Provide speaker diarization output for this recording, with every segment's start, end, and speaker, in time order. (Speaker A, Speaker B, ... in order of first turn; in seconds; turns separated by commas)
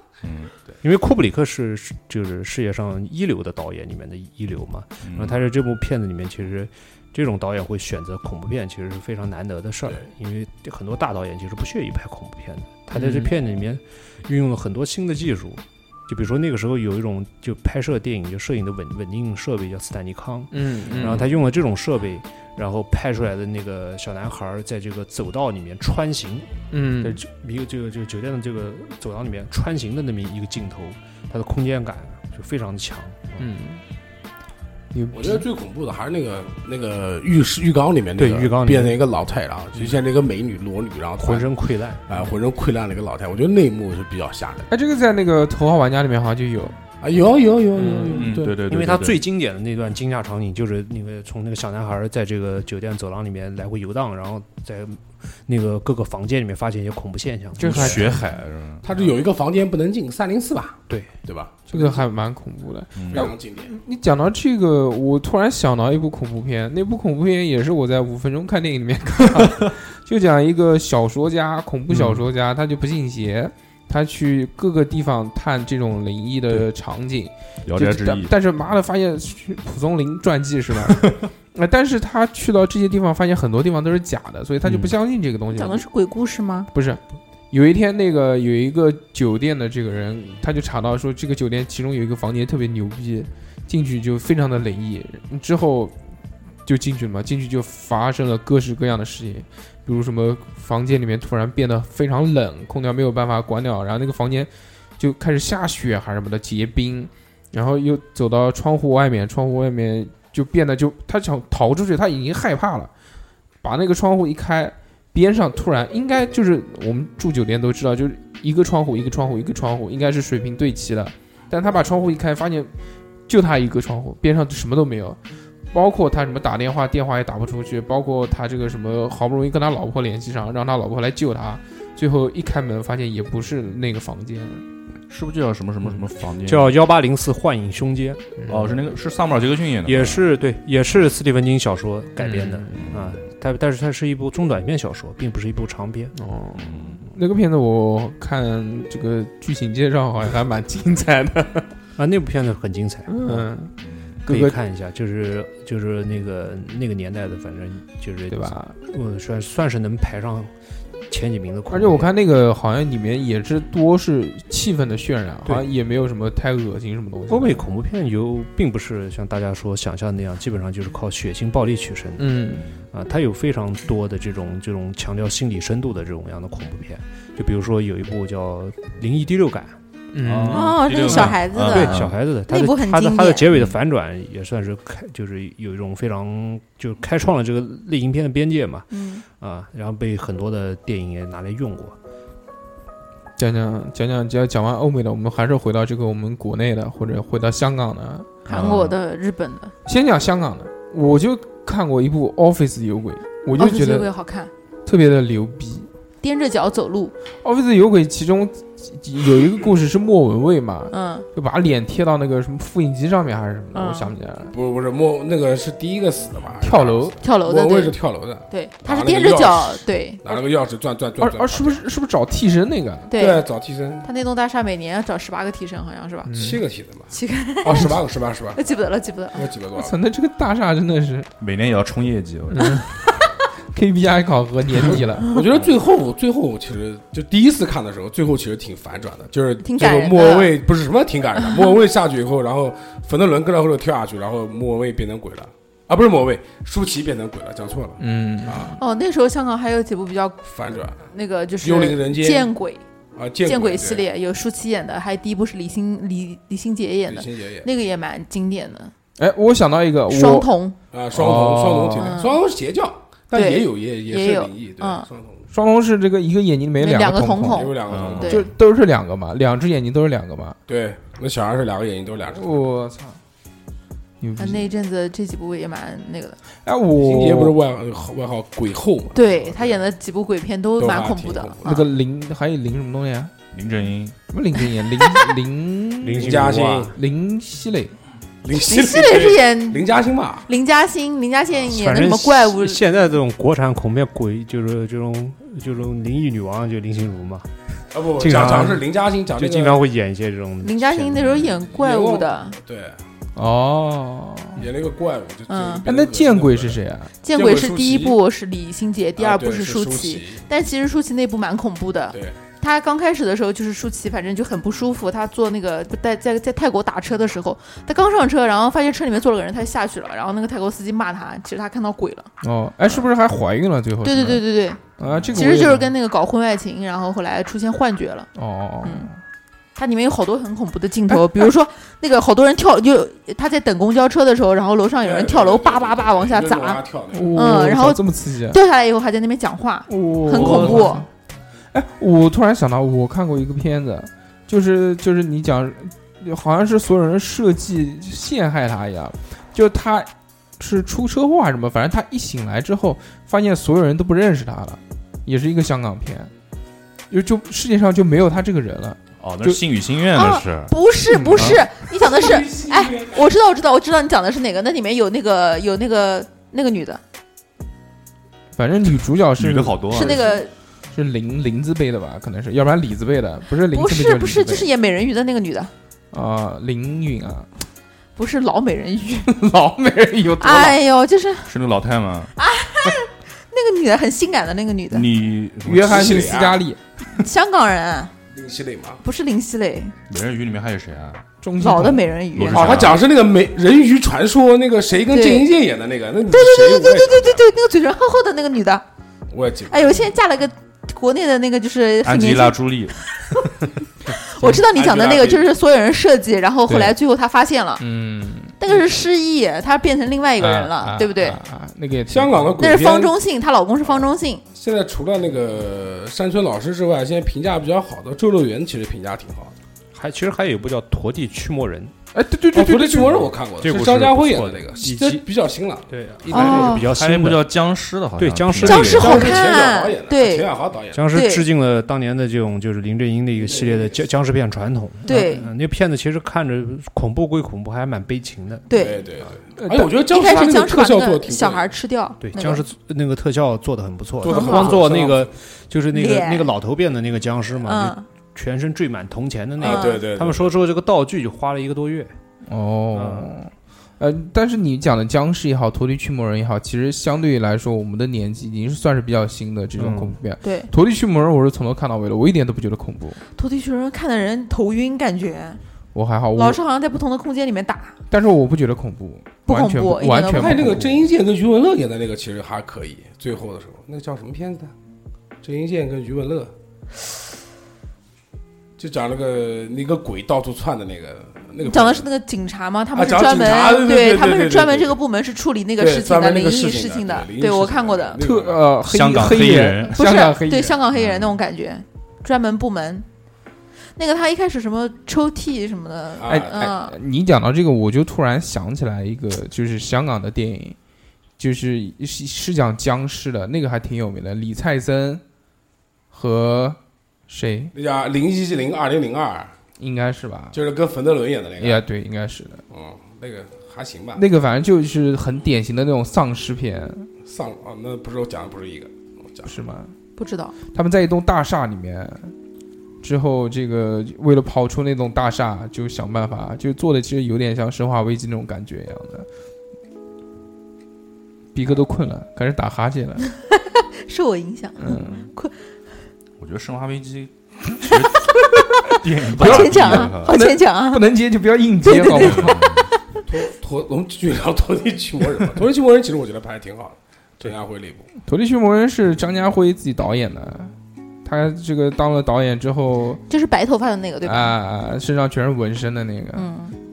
Speaker A: 0.2-0.5, Speaker B: 0.8-33.5, Speaker A: 5.0-5.4, Speaker C: 12.9-13.3, Speaker C: 20.5-21.3, Speaker A: 21.0-21.3, Speaker C: 26.7-27.2, Speaker C: 33.4-33.8, Speaker C: 34.9-35.5, Speaker D: 35.1-41.5, Speaker B: 38.2-39.0, Speaker B: 39.8-40.0, Speaker B: 41.2-42.2, Speaker D: 42.1-44.7, Speaker C: 44.7-46.8, Speaker D: 47.0-48.6, Speaker C: 47.8-48.3, Speaker B: 47.8-58.2, Speaker A: 48.1-49.2, Speaker C: 57.6-58.1, Speaker A: 57.6-58.8, Speaker D: 58.8-62.0, Speaker B: 60.9-61.1, Speaker C: 61.7-85.8, Speaker A: 63.0-63.3, Speaker D: 63.1-63.8, Speaker A: 69.4-69.7, Speaker A: 71.9-72.2, Speaker A: 77.7-78.3, Speaker A: 80.9-81.2, Speaker E: 85.5-86.7, Speaker C: 86.7-96.0, Speaker C: 96.7-112.9, Speaker C: 113.6-122.7, Speaker C: 123.3-125.2, Speaker C: 125.7-134.7, Speaker A: 135.1-136.8, Speaker B: 136.5-138.3, Speaker A: 138.5-140.3, Speaker B: 139.8-146.2, Speaker A: 142.2-143.2, Speaker C: 146.2-151.7, Speaker A: 146.6-147.1, Speaker B: 152.0-153.5, Speaker C: 153.1-153.7, Speaker A: 153.8-154.2, Speaker C: 154.2-154.6, Speaker B: 154.3-160.5, Speaker C: 158.3-158.8, Speaker B: 161.1-162.1, Speaker C: 161.7-167.6, Speaker B: 167.3-172.4, Speaker C: 172.2-172.7, Speaker B: 172.9-179.8, Speaker C: 180.1-181.3, Speaker A: 180.2-182.2, Speaker E: 180.5-183.5, Speaker B: 181.1-192.0, Speaker A: 183.5-183.8, Speaker E: 188.9-189.2, Speaker C: 193.4-198.5, Speaker A: 198.5-199.0, Speaker E: 198.5-199.7, Speaker C: 199.8-204.1, Speaker E: 203.6-204.5, Speaker C: 204.8-205.9, Speaker E: 206.2-207.1, Speaker C: 207.4-214.5, Speaker E: 210.9-211.3, Speaker E: 213.7-214.1, Speaker D: 214.5-221.8, Speaker C: 216.6-217.2, Speaker E: 217.2-218.0, Speaker E: 218.5-220.2, Speaker C: 221.2-223.1, Speaker E: 223.1-223.4, Speaker D: 223.1-224.1, Speaker E: 224.0-226.3, Speaker C: 226.3-226.6, Speaker D: 226.3-228.6, Speaker E: 227.1-228.0, Speaker E: 228.5-229.4, Speaker D: 229.3-230.0, Speaker C: 229.8-231.3, Speaker A: 231.4-232.7, Speaker C: 232.5-232.9, Speaker C: 233.7-235.3, Speaker D: 235.2-248.8, Speaker E: 239.6-240.5, Speaker E: 241.4-241.7, Speaker C: 248.0-248.8, Speaker E: 248.8-250.4, Speaker D: 250.4-251.0, Speaker E: 251.0-252.8, Speaker D: 251.6-252.5, Speaker D: 253.2-254.1, Speaker E: 253.4-258.9, Speaker D: 257.1-257.7, Speaker C: 259.2-260.5, Speaker E: 260.1-260.8, Speaker D: 260.9-265.5, Speaker C: 261.1-262.1, Speaker E: 262.0-262.4, Speaker E: 263.3-265.1, Speaker C: 265.5-267.7, Speaker E: 266.8-268.5, Speaker D: 267.5-268.4, Speaker A: 267.9-268.3, Speaker C: 268.2-270.6, Speaker D: 270.7-272.6, Speaker C: 272.4-273.2, Speaker C: 274.2-274.7, Speaker E: 274.4-276.4, Speaker C: 276.6-277.6, Speaker D: 276.9-279.8, Speaker E: 279.1-281.8, Speaker D: 280.8-281.8, Speaker C: 281.6-283.3, Speaker A: 283.5-284.1, Speaker C: 284.3-287.9, Speaker B: 286.0-287.0, Speaker D: 286.1-286.9, Speaker D: 288.4-290.5, Speaker E: 288.6-289.9, Speaker E: 290.5-292.8, Speaker B: 291.7-297.5, Speaker D: 297.9-299.8, Speaker B: 298.1-298.9, Speaker B: 299.4-301.4, Speaker E: 300.6-302.6, Speaker D: 301.7-303.0, Speaker C: 303.4-304.7, Speaker D: 304.6-308.2, Speaker E: 305.5-305.9, Speaker C: 305.9-307.1, Speaker E: 307.2-322.3, Speaker D: 309.2-310.4, Speaker D: 312.1-312.4, Speaker C: 322.4-324.4, Speaker E: 324.0-324.8, Speaker C: 325.0-325.9, Speaker E: 325.3-328.3, Speaker C: 328.4-329.2, Speaker E: 328.8-329.1, Speaker E: 329.8-336.8, Speaker C: 331.1-331.5, Speaker D: 335.0-337.4, Speaker C: 337.1-338.6, Speaker E: 337.3-341.1, Speaker C: 339.9-341.1, Speaker A: 340.3-340.9, Speaker C: 341.7-356.3, Speaker C: 357.1-359.6, Speaker A: 359.2-360.8, Speaker E: 360.1-367.0, Speaker C: 361.1-361.6, Speaker A: 361.3-361.6, Speaker D: 362.0-363.3, Speaker C: 368.6-370.4, Speaker A: 369.4-370.3, Speaker E: 369.9-370.5, Speaker C: 370.9-374.7, Speaker E: 373.6-375.7, Speaker C: 376.1-377.5, Speaker E: 378.2-379.3, Speaker C: 379.3-380.8, Speaker E: 380.4-381.5, Speaker A: 381.5-382.3, Speaker E: 382.4-385.1, Speaker A: 384.9-386.3, Speaker C: 385.6-386.8, Speaker D: 385.8-386.6, Speaker E: 387.2-388.1, Speaker D: 388.3-389.0, Speaker E: 389.0-389.9, Speaker A: 390.1-391.2, Speaker C: 391.4-392.1, Speaker E: 391.6-392.9, Speaker A: 392.4-393.0, Speaker D: 392.5-397.5, Speaker E: 395.1-395.5, Speaker E: 396.3-398.8, Speaker D: 399.3-400.0, Speaker E: 399.7-402.6, Speaker A: 402.0-403.0, Speaker E: 404.1-407.8, Speaker D: 404.7-405.5, Speaker C: 406.7-407.0, Speaker C: 407.8-408.6, Speaker E: 408.6-411.4, Speaker C: 410.4-412.6, Speaker D: 412.1-413.2, Speaker E: 412.6-414.4, Speaker D: 414.5-419.5, Speaker B: 419.9-421.9, Speaker C: 422.1-423.3, Speaker D: 422.5-426.9, Speaker B: 423.6-425.2, Speaker B: 425.9-427.4, Speaker E: 426.3-426.9, Speaker A: 426.7-429.3, Speaker B: 428.2-429.4, Speaker E: 428.6-430.5, Speaker D: 428.8-431.1, Speaker B: 430.9-438.7, Speaker E: 431.1-431.4, Speaker D: 433.4-434.0, Speaker E: 435.1-435.5, Speaker E: 438.7-439.1, Speaker D: 438.7-441.7, Speaker C: 439.6-440.0, Speaker E: 440.1-442.6, Speaker B: 442.2-452.1, Speaker D: 444.2-445.3, Speaker E: 444.3-444.8, Speaker E: 445.9-446.5, Speaker E: 447.6-448.1, Speaker E: 449.6-450.0, Speaker D: 449.6-450.5, Speaker C: 452.4-463.2, Speaker B: 452.9-453.3, Speaker B: 459.8-460.2, Speaker E: 460.4-460.7, Speaker E: 463.4-465.6, Speaker C: 465.9-466.6, Speaker E: 466.3-468.0, Speaker C: 468.1-471.1, Speaker E: 469.5-470.7, Speaker D: 470.3-474.7, Speaker D: 475.4-476.5, Speaker D: 478.8-482.1, Speaker E: 481.6-488.2, Speaker D: 482.9-485.0, Speaker D: 485.8-488.7, Speaker C: 488.2-490.8, Speaker A: 488.9-490.0, Speaker E: 489.9-493.1, Speaker A: 490.9-491.3, Speaker E: 494.0-496.9, Speaker D: 496.2-496.7, Speaker C: 496.2-500.8, Speaker C: 501.4-505.2, Speaker C: 506.1-507.7, Speaker D: 507.7-509.5, Speaker C: 509.8-510.6, Speaker D: 510.5-511.8, Speaker C: 511.6-512.6, Speaker D: 512.7-514.2, Speaker C: 514.2-517.1, Speaker D: 517.2-519.5, Speaker C: 519.5-519.9, Speaker E: 520.2-520.5, Speaker C: 520.7-522.3, Speaker C: 523.0-529.3, Speaker C: 531.5-533.2, Speaker E: 533.5-535.6, Speaker C: 534.8-535.2, Speaker A: 534.9-535.3, Speaker A: 536.4-540.4, Speaker E: 539.3-541.1, Speaker C: 539.3-542.8, Speaker E: 541.8-543.0, Speaker A: 542.1-542.9, Speaker D: 543.3-548.1, Speaker C: 548.2-553.2, Speaker E: 553.3-554.6, Speaker C: 554.2-556.5, Speaker E: 556.4-556.7